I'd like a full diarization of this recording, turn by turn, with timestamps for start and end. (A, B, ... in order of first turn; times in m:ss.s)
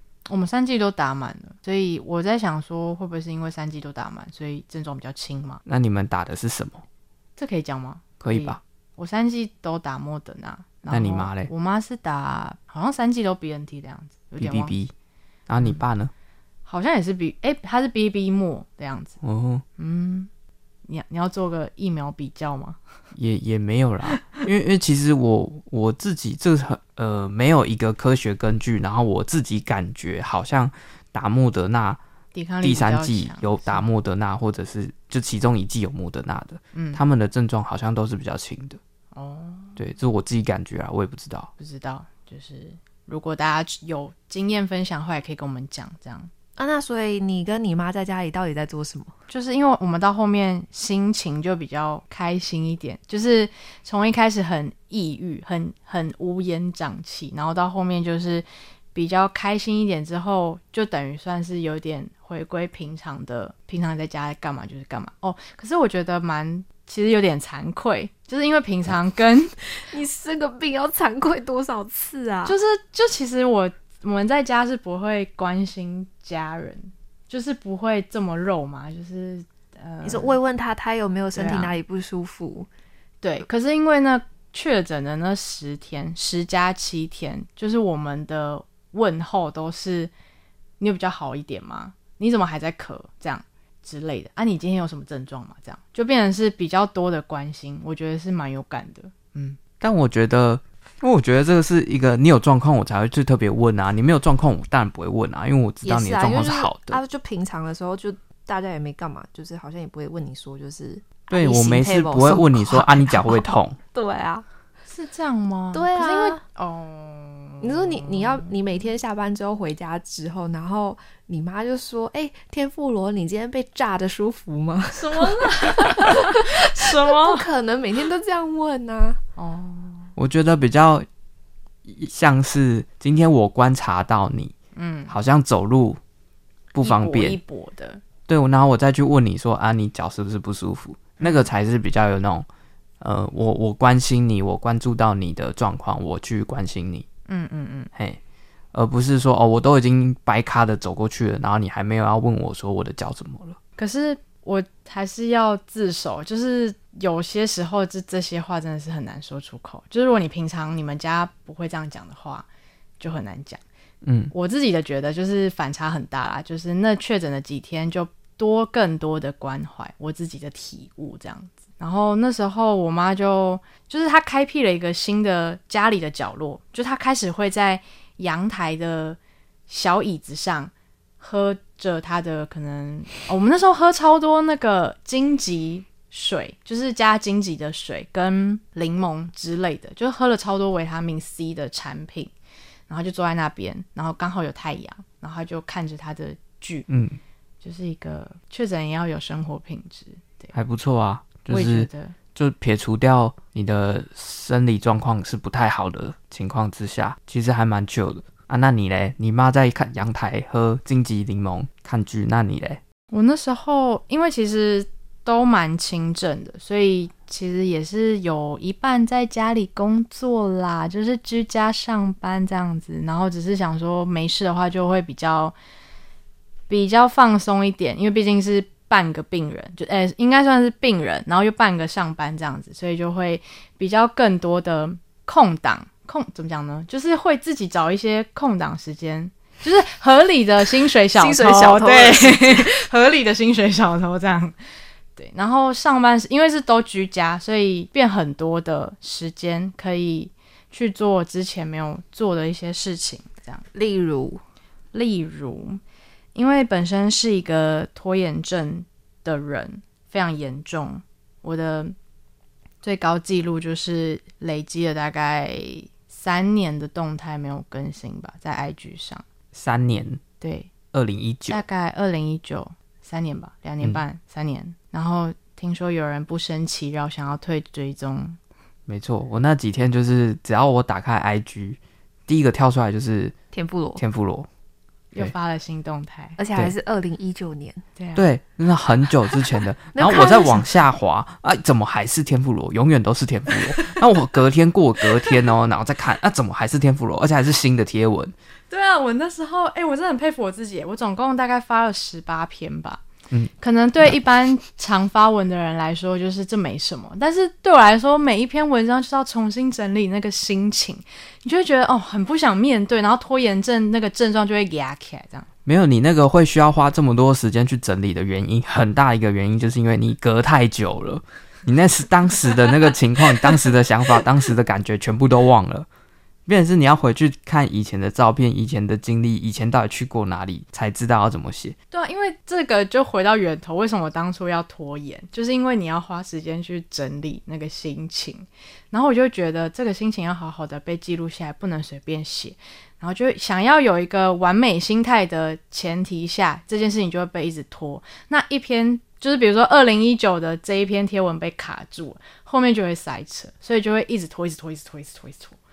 0:00.3-0:05.6 A
0:05.6-0:06.8 B
0:07.4-0:14.7 A
0:08.2-0:08.6 B
0:10.9-0:11.5 B
0:14.4-0:14.9 B
0:15.5-0:16.1 B
0:16.6-0:19.2 A
0:19.2-0:19.6 B
0:19.8-0:20.3 A
0:20.9-0:22.8 A
0:23.1-0:32.0 B
0:32.3-0:33.8 A
0:32.6-0:38.8 B
0:36.7-0:37.0 A
0:39.1-0:39.8 A
0:39.8-0:41.5 B
0:41.6-0:46.3 A
0:46.6-0:49.1 C
0:49.3-1:09.5 A
1:09.8-1:12.6 C
1:12.4-1:20.4 A
1:20.0-1:22.7 C
1:21.3-1:21.8 A
1:23.2-1:30.1 A
1:30.8-1:39.6 A
1:39.8-1:47.0 B
1:45.8-1:54.4 C
1:51.3-1:53.8 B
1:54.9-1:58.6 A
1:55.7-1:56.4 C
1:57.6-2:09.2 C
2:04.9-2:07.4 A
2:09.4-2:10.1 A
2:10.2-2:11.0 B
2:11.8-2:14.5 B
2:14.7-2:15.1 A
2:15.1-2:16.0 B
2:16.7-2:17.4 B
2:16.8-2:18.0 A
2:18.3-2:22.4 B
2:21.2-2:21.5 A
2:23.0-2:27.0 B
2:27.3-2:27.9 A
2:28.7-2:33.6 B
2:33.8-2:42.4 A
2:43.0-2:43.6 A
2:44.0-2:44.3 B
2:44.3-3:12.3 A
3:12.9-3:16.8 A
3:16.9-3:17.2 B
3:17.6-3:20.5 A
3:20.5-3:32.8 B
3:21.5-3:22.1 A
3:33.1-3:45.5 A
3:46.7-4:04.5 A
4:01.2-4:02.7 C
4:05.2-4:13.6 A
4:13.7-4:14.4 C
4:14.9-4:15.8 A
4:16.3-4:21.9 A
4:22.8-4:29.2 A
4:29.5-4:30.2 B
4:30.4-4:30.7 A
4:30.9-4:31.6 B
4:31.5-4:38.4 A
4:38.9-4:43.4 B
4:43.5-4:44.0 C
4:44.0-4:44.5 B
4:45.1-4:46.4 A
4:46.4-4:47.8 C
4:48.0-4:48.2 A
4:48.2-4:58.3 B
4:49.9-4:50.7 C
4:58.7-5:03.0 A
5:03.6-5:15.5 A
5:15.6-5:25.9 B
5:26.5-5:31.8 B
5:31.9-5:55.6 A